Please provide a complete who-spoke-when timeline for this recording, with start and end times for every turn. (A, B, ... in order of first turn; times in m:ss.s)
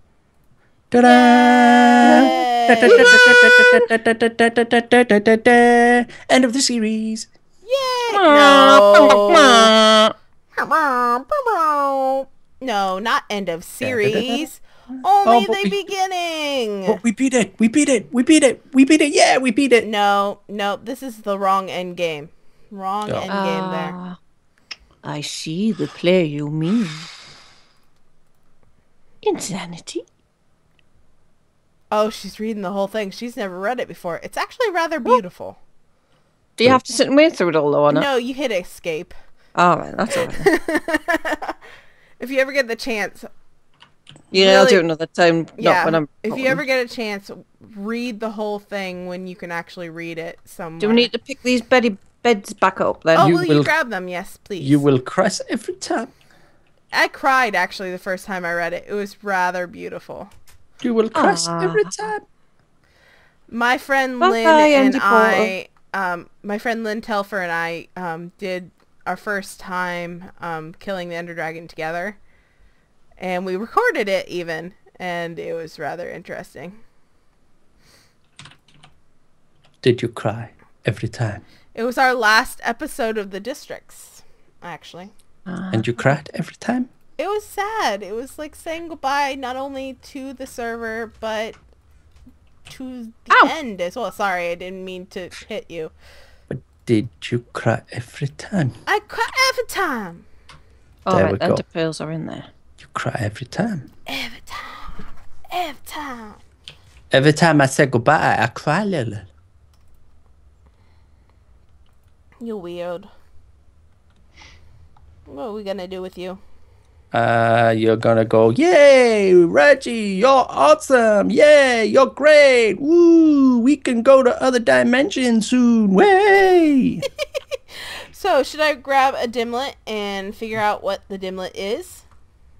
0:00.9-0:07.3 A
0:01.0-0:03.2 B
0:02.0-0:03.9 C
0:07.6-0:09.7 B
0:08.1-0:10.1 C
0:10.6-0:17.0 B
0:13.8-0:14.4 A
0:15.2-0:15.8 A
0:16.9-0:19.9 A
0:19.8-0:24.0 B
0:23.3-0:24.2 C
0:25.0-0:27.1 C
0:29.2-0:30.0 C
0:31.9-0:35.6 B
0:36.6-0:38.1 C
0:37.9-0:39.1 B
0:39.6-0:40.5 C
0:40.1-0:41.6 B
0:42.2-0:43.3 B
0:44.3-0:44.8 B
0:44.3-0:46.6 C
0:45.6-0:51.1 B
0:50.8-0:53.3 C
0:53.2-0:54.8 B
0:53.2-0:53.7 A
0:54.6-0:56.1 A
0:56.9-1:00.3 B
1:00.8-1:02.2 A
1:01.1-1:02.0 C
1:03.5-1:12.2 B
1:04.2-1:05.5 C
1:13.2-1:16.8 B
1:19.8-1:21.4 A
1:21.7-1:25.1 B
1:25.5-1:26.0 C
1:25.7-1:26.9 A
1:27.2-1:31.6 B
1:32.7-1:35.9 B
1:36.5-1:38.8 A
1:38.8-1:40.2 B
1:41.0-1:42.5 C
1:41.1-1:41.6 A
1:42.8-1:43.9 A
1:44.1-1:45.0 B
1:45.5-1:46.4 B
1:47.1-1:49.3 A
1:52.4-1:53.1 B
1:55.3-1:56.4 B
1:57.1-2:07.0 A
2:08.1-2:12.0 B